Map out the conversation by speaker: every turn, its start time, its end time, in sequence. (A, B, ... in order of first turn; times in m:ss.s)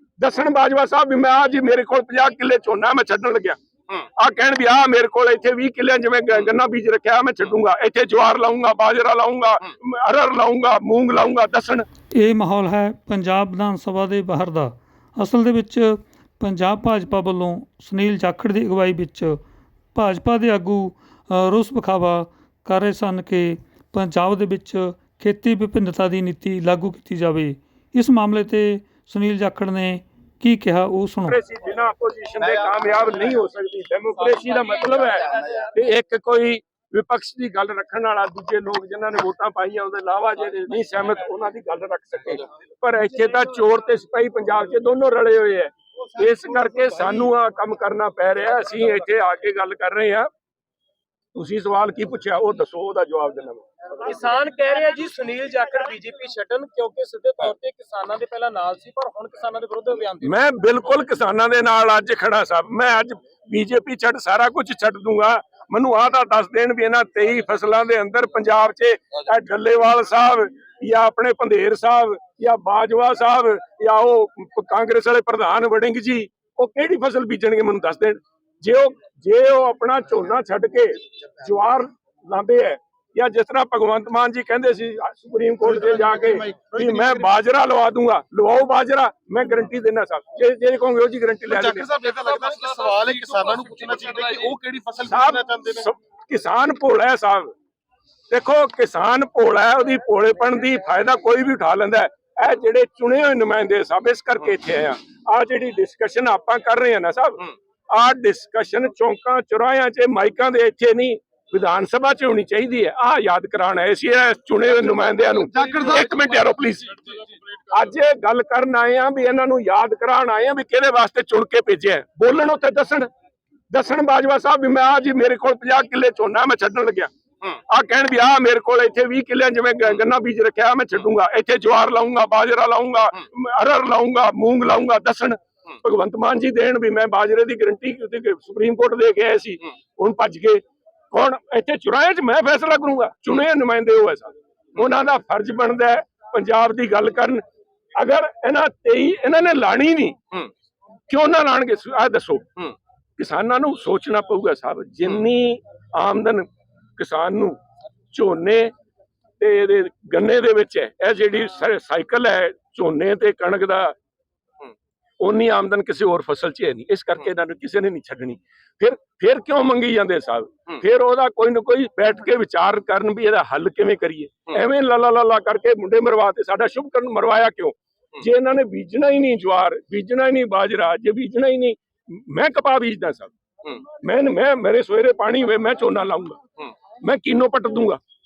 0:00.2-0:11.8 A
0:12.2-0:19.4 B
0:20.0-0:31.4 B
0:31.2-0:50.3 A
0:51.3-0:53.7 A
0:54.0-1:00.3 C
1:00.2-1:31.9 A
1:25.8-1:27.2 D
1:31.5-1:35.8 D
1:32.2-1:34.4 C
1:35.0-1:37.5 A
1:38.3-1:57.0 A
1:55.1-1:56.3 C
1:57.7-2:03.1 A
2:03.7-2:27.4 A
2:28.0-2:30.2 A
2:31.1-2:32.6 A
2:33.2-2:37.6 A
2:38.1-2:38.7 A
2:39.4-2:43.9 A
2:45.2-3:03.3 A
3:04.0-3:06.4 A
3:07.0-3:08.0 A